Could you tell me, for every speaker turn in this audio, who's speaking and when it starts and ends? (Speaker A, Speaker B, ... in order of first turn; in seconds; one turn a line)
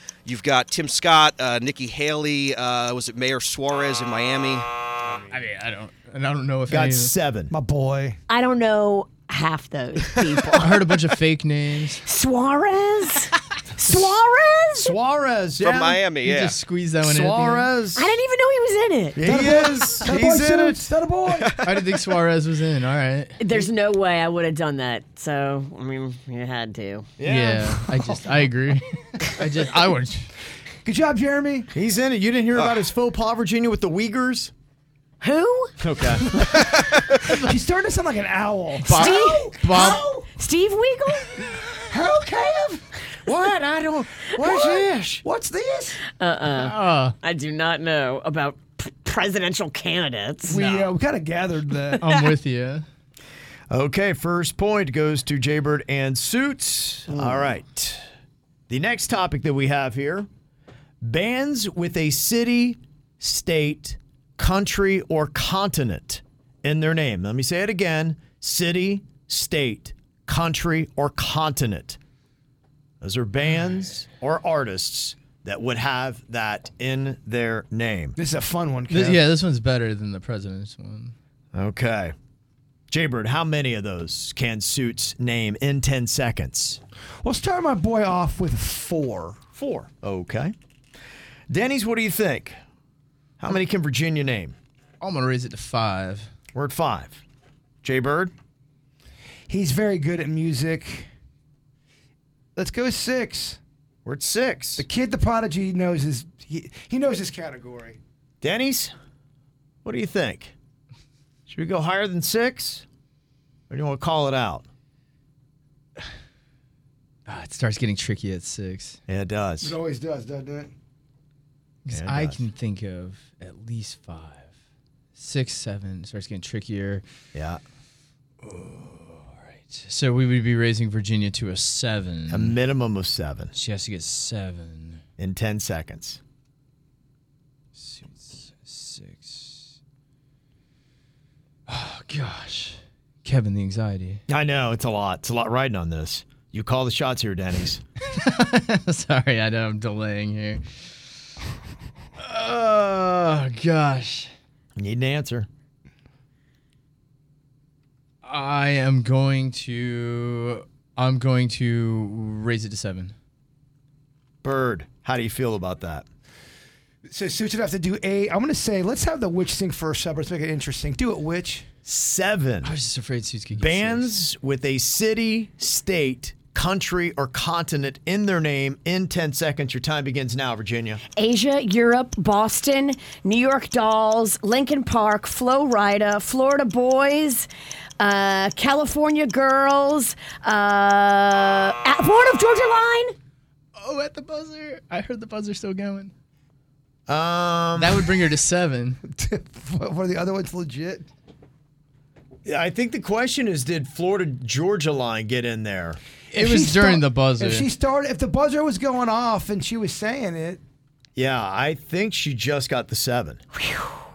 Speaker A: 0.3-4.7
Speaker B: 5.0-5.3
Speaker C: 5.3-7.1
Speaker D: 6.7-7.5
Speaker B: 7.5-8.2
Speaker E: 8.3-11.0
Speaker C: 10.6-12.0
Speaker E: 12.0-14.9
Speaker D: 14.8-16.0
Speaker A: 15.6-16.6
Speaker C: 16.2-17.7
Speaker D: 17.0-18.1
Speaker E: 18.0-19.2
Speaker D: 19.2-20.9
Speaker B: 19.2-21.5
Speaker A: 21.3-21.8
Speaker C: 21.6-23.4
Speaker E: 23.4-27.1
Speaker D: 27.2-27.9
Speaker C: 27.2-30.3
Speaker B: 30.8-31.7
Speaker D: 31.7-34.5
Speaker E: 35.2-35.8
Speaker D: 35.8-36.3
Speaker A: 36.6-37.3
Speaker B: 37.3-40.0
Speaker C: 38.8-40.1
Speaker E: 38.9-41.5
Speaker B: 41.9-42.9
Speaker D: 43.2-45.2
Speaker B: 44.4-46.0
Speaker E: 46.2-50.6
Speaker C: 46.5-47.2
Speaker B: 50.5-52.0
Speaker C: 50.5-50.9
Speaker C: 52.0-52.9
Speaker E: 52.0-52.3
Speaker D: 53.7-58.0
Speaker E: 57.1-57.4
Speaker D: 58.7-60.3
Speaker D: 61.0-72.0
Speaker D: 73.0-78.2
Speaker B: 78.2-79.2
Speaker C: 78.9-81.1
Speaker D: 81.5-82.1
Speaker D: 82.9-86.8
Speaker B: 87.2-89.4
Speaker D: 89.5-90.5
Speaker D: 91.5-92.6
Speaker D: 93.4-94.6
Speaker C: 95.0-96.3
Speaker D: 96.5-97.2
Speaker D: 97.8-98.3
Speaker B: 99.5-101.1
Speaker B: 102.6-103.6
Speaker D: 104.0-104.9
Speaker B: 104.8-108.0
Speaker D: 108.4-108.9
Speaker D: 109.8-110.5
Speaker D: 111.5-112.8
Speaker D: 113.7-114.7
Speaker C: 117.3-119.0
Speaker D: 119.1-119.8
Speaker B: 119.6-120.7
Speaker C: 121.8-124.5
Speaker D: 121.9-122.4
Speaker C: 125.2-127.0
Speaker D: 127.3-127.6
Speaker C: 128.4-132.6
Speaker D: 132.3-133.5
Speaker C: 133.6-135.0
Speaker D: 135.2-136.2
Speaker C: 137.8-139.7
Speaker C: 141.7-144.2
Speaker D: 144.3-147.8
Speaker C: 148.0-150.6
Speaker C: 152.2-154.3
Speaker D: 154.8-155.5
Speaker C: 158.2-163.1
Speaker D: 164.4-166.1
Speaker B: 167.1-171.7
Speaker D: 171.8-172.8
Speaker C: 172.6-174.1
Speaker D: 173.6-181.0
Speaker E: 181.2-187.5
Speaker E: 188.0-193.2
Speaker C: 193.8-196.1
Speaker D: 197.1-198.1
Speaker C: 197.8-199.0
Speaker B: 199.1-201.1
Speaker D: 202.4-206.0
Speaker C: 206.3-207.7
Speaker B: 206.3-210.6
Speaker D: 211.2-213.4
Speaker E: 213.6-214.0